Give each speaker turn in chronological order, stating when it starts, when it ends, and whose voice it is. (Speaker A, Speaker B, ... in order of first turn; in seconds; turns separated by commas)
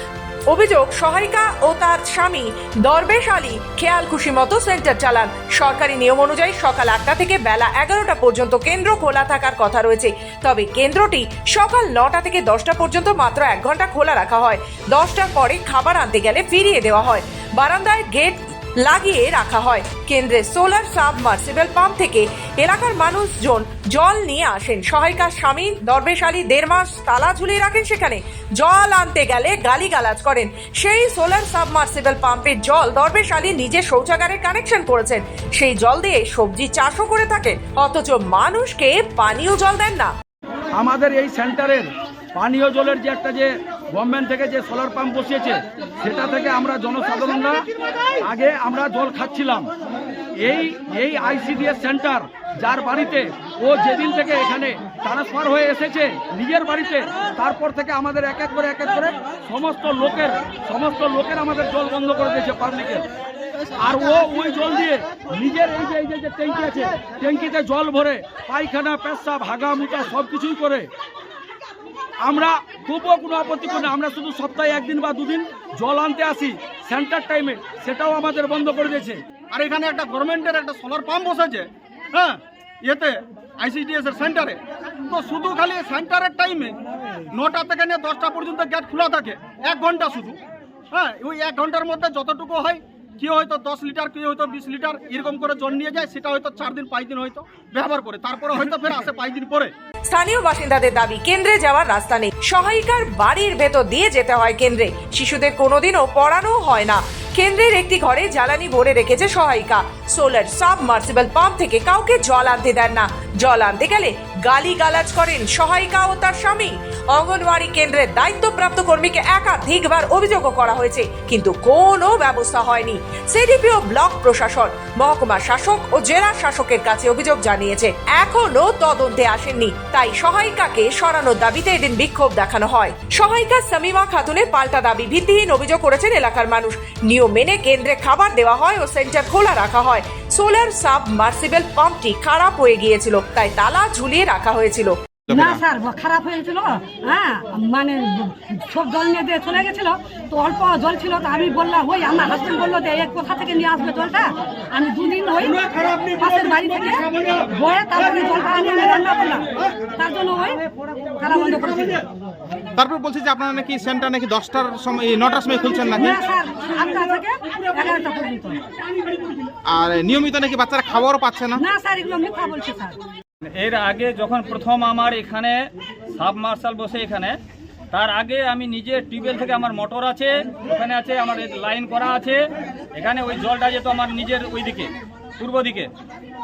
Speaker A: 0.5-40.1, Speaker B: 40.8-47.6, Speaker B: 48.3-49.7, Speaker B: 50.4-63.1, Speaker B: 63.8-70.9, Speaker B: 72.2-79.2, Speaker C: 79.5-84.6, Speaker C: 85.1-86.7, Speaker C: 87.3-90.4, Speaker C: 90.9-99.7, Speaker A: 100.1-144.9, Speaker D: 145.3-145.6, Speaker E: 145.3-160.6, Speaker E: 161.2-162.0, Speaker D: 162.8-166.2, Speaker E: 165.9-168.7, Speaker D: 169.7-171.6, Speaker E: 171.6-173.0, Speaker F: 173.6-175.6, Speaker F: 176.2-177.4, Speaker F: 177.9-182.4, Speaker F: 182.9-185.9